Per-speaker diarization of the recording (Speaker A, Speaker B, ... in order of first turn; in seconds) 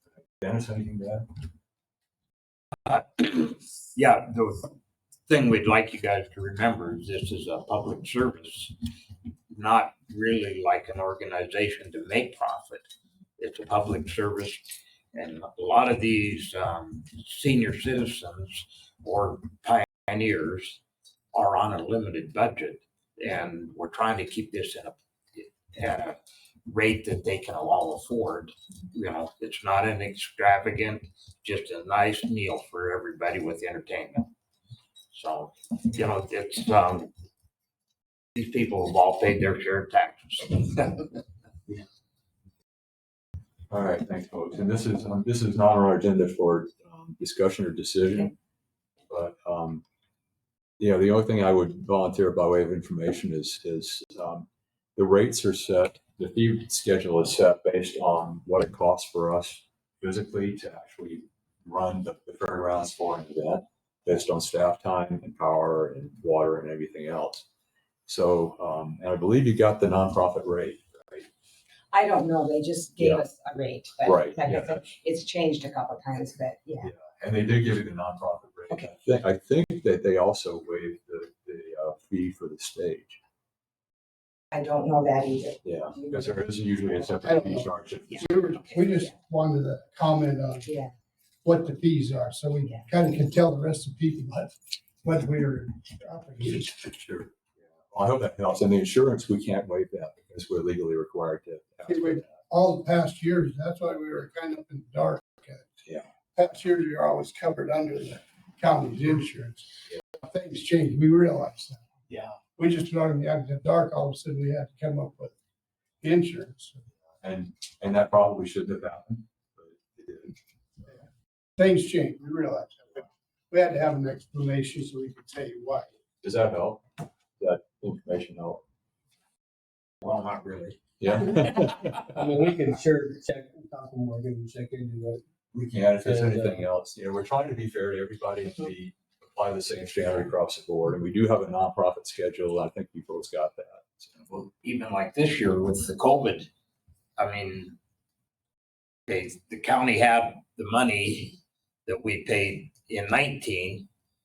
Speaker A: 0.4-1.3, 43.7-48.3, 49.1-49.8, 50.8-67.5, 68.1-71.3, 73.0-73.2, 74.0-74.8, 76.8-83.2, 85.6-88.7, 96.9-97.3, 97.9-102.3, 117.2-120.3, 126.2-126.8, 127.4-128.6, 131.0-132.0, 135.5-144.3
Speaker B: 2.9-4.8, 5.3-8.8, 9.5-12.8, 13.4-20.8, 21.3-34.3, 35.1-37.1, 38.4-41.2, 130.0-130.8, 144.3-146.5, 147.2-147.8, 149.1-153.9
Speaker C: 71.9-76.9, 84.5-86.4, 90.7-90.9
Speaker D: 87.2-90.7, 91.4-97.0, 101.8-105.7, 106.3-111.8, 112.4-115.3, 116.0-116.8, 121.6-125.9
Speaker E: 132.0-135.2, 136.0-136.7